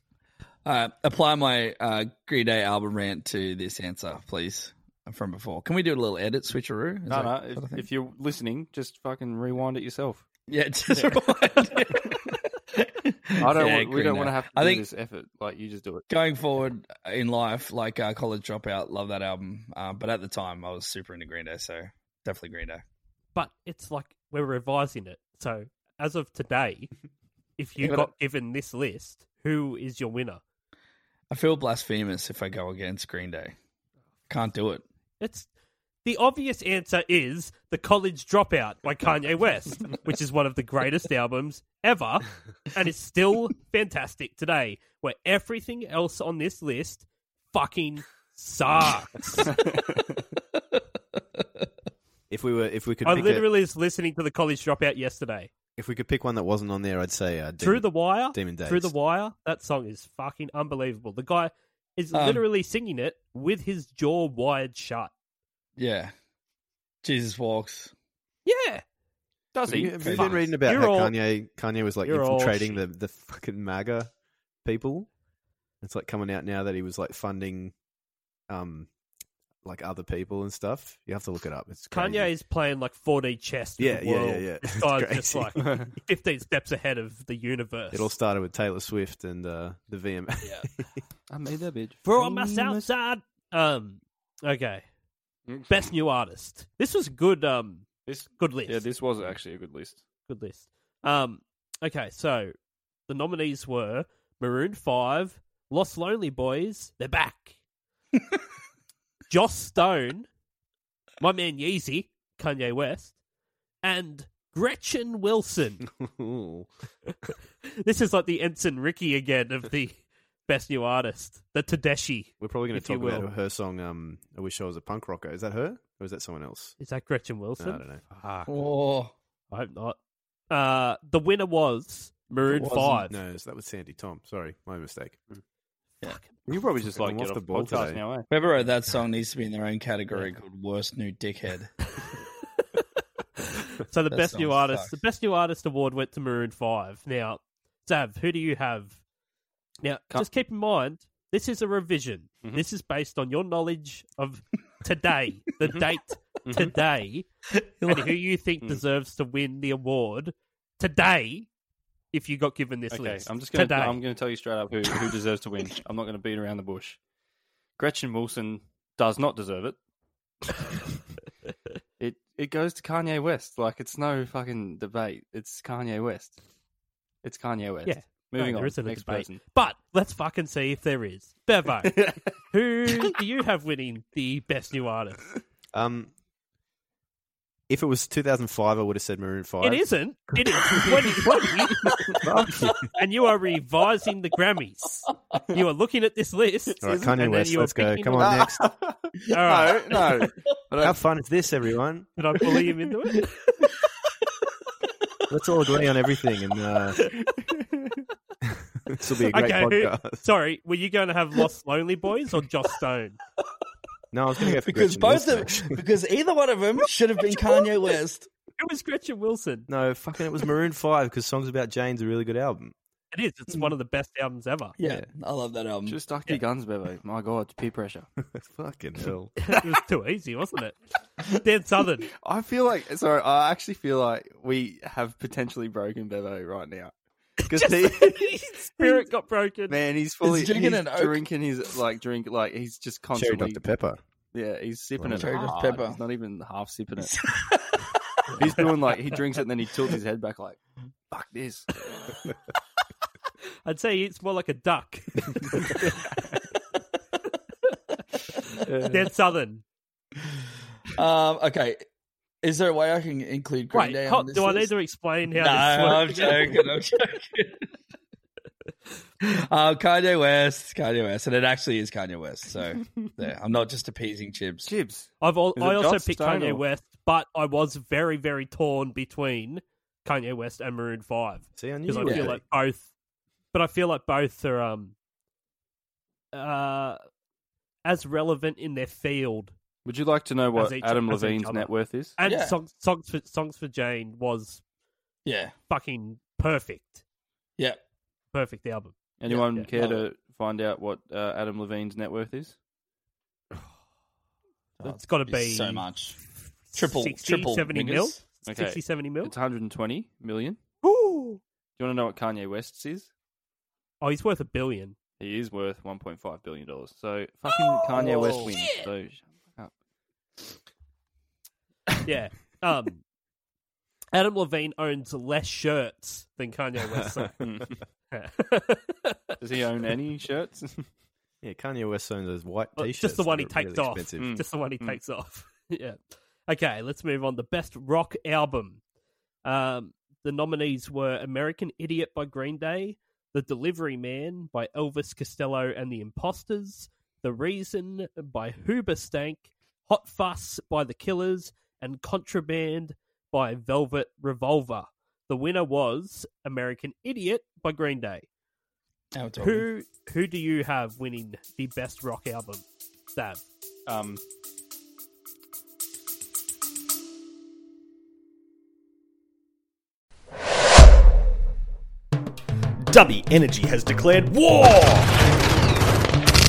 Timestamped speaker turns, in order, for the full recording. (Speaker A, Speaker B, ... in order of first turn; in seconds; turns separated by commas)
Speaker A: 0.6-7.8, Speaker B: 7.1-10.2, Speaker A: 10.5-14.8, Speaker B: 13.4-16.1, Speaker A: 16.1-22.8, Speaker C: 23.3-26.9, Speaker C: 27.6-30.4, Speaker A: 27.8-28.1, Speaker A: 31.3-33.5, Speaker A: 34.3-34.8, Speaker C: 35.2-35.5, Speaker C: 36.0-49.5, Speaker B: 49.5-50.1, Speaker D: 52.3-53.5, Speaker C: 53.0-55.5, Speaker D: 55.8-58.9, Speaker C: 57.6-65.1, Speaker A: 62.1-62.4, Speaker A: 65.8-66.1, Speaker A: 67.0-67.9, Speaker C: 68.5-68.8, Speaker B: 69.5-70.4, Speaker D: 69.7-74.1, Speaker A: 70.0-70.3, Speaker C: 70.5-71.2, Speaker C: 72.0-72.8, Speaker D: 74.6-75.1, Speaker D: 75.8-77.7, Speaker D: 78.5-78.9, Speaker D: 79.6-82.3, Speaker C: 81.9-88.1, Speaker D: 83.8-85.8, Speaker B: 85.6-85.9, Speaker D: 87.9-90.9, Speaker B: 91.3-92.9, Speaker C: 92.0-94.8, Speaker B: 95.5-95.8, Speaker C: 95.7-98.8, Speaker B: 98.1-100.0, Speaker C: 100.3-102.5, Speaker C: 103.1-107.6, Speaker C: 109.3-110.3, Speaker C: 111.2-113.1, Speaker C: 113.8-115.8, Speaker D: 115.9-116.7, Speaker C: 117.6-123.3, Speaker D: 122.4-126.7, Speaker C: 126.8-128.6, Speaker D: 127.6-128.0, Speaker A: 128.5-129.1, Speaker C: 129.5-130.0, Speaker C: 130.5-133.1, Speaker A: 132.5-133.0, Speaker D: 132.7-135.2, Speaker C: 136.0-136.3, Speaker D: 136.5-138.0, Speaker B: 136.5-138.3, Speaker A: 138.3-141.9, Speaker C: 143.8-149.0, Speaker A: 144.1-144.9, Speaker C: 149.8-157.3, Speaker B: 156.4-156.7, Speaker A: 157.6-158.1, Speaker C: 157.9-161.5, Speaker C: 162.1-164.0, Speaker B: 162.9-167.0, Speaker B: 167.8-169.8, Speaker B: 172.0-176.4, Speaker B: 177.2-179.4, Speaker C: 177.8-185.2, Speaker B: 181.8-182.3, Speaker D: 185.7-186.1, Speaker D: 187.7-189.9, Speaker C: 189.6-192.0, Speaker D: 192.2-192.9, Speaker C: 192.9-198.4, Speaker B: 196.8-197.2, Speaker D: 196.8-198.7, Speaker B: 198.2-201.0, Speaker C: 199.3-199.8, Speaker D: 200.8-202.1, Speaker C: 202.2-203.2, Speaker D: 205.3-207.0, Speaker B: 207.4-208.0, Speaker D: 208.4-210.2, Speaker C: 209.3-213.2, Speaker D: 214.1-215.8, Speaker A: 214.6-218.3, Speaker C: 218.6-219.7, Speaker D: 219.7-222.7, Speaker C: 223.1-224.8, Speaker A: 224.8-226.0, Speaker D: 224.8-225.1, Speaker B: 225.8-228.1, Speaker D: 228.3-229.4, Speaker C: 229.4-232.1, Speaker B: 232.2-236.9, Speaker D: 237.5-238.3, Speaker C: 237.5-239.8, Speaker B: 239.7-243.6, Speaker A: 240.2-241.2, Speaker D: 243.1-244.0, Speaker B: 244.3-247.2, Speaker D: 245.0-245.3, Speaker A: 245.1-246.0, Speaker A: 247.0-247.8, Speaker B: 248.3-250.6, Speaker B: 251.1-251.8, Speaker C: 253.6-255.9, Speaker B: 258.6-259.1, Speaker C: 258.9-259.6, Speaker A: 260.9-261.8, Speaker A: 262.4-264.7, Speaker C: 263.7-266.6, Speaker A: 265.4-267.6, Speaker A: 269.2-274.7, Speaker B: 274.6-276.6, Speaker C: 275.2-282.9, Speaker D: 281.6-282.4, Speaker A: 282.0-282.3, Speaker C: 283.5-284.9, Speaker C: 286.3-287.0, Speaker C: 287.8-289.5, Speaker B: 289.8-292.1, Speaker C: 290.5-294.6, Speaker A: 292.2-292.6, Speaker A: 295.2-295.5, Speaker C: 295.7-297.0, Speaker C: 298.3-298.9, Speaker B: 299.2-302.6, Speaker A: 299.3-300.0, Speaker A: 304.8-306.2, Speaker C: 304.8-305.9, Speaker C: 306.7-309.3, Speaker A: 306.7-308.2, Speaker B: 308.4-310.6, Speaker C: 310.8-311.4, Speaker B: 311.8-313.1, Speaker C: 314.0-314.9, Speaker B: 315.2-319.7, Speaker C: 317.5-318.9, Speaker C: 322.0-323.0, Speaker C: 324.1-327.4, Speaker B: 327.4-327.7, Speaker C: 328.1-329.4, Speaker B: 329.4-330.9, Speaker D: 331.4-334.3, Speaker C: 332.8-338.8, Speaker B: 334.2-335.0, Speaker C: 339.4-358.3, Speaker A: 359.1-359.7, Speaker C: 359.4-362.6, Speaker C: 363.1-363.4, Speaker B: 363.9-364.2, Speaker E: 372.8-375.2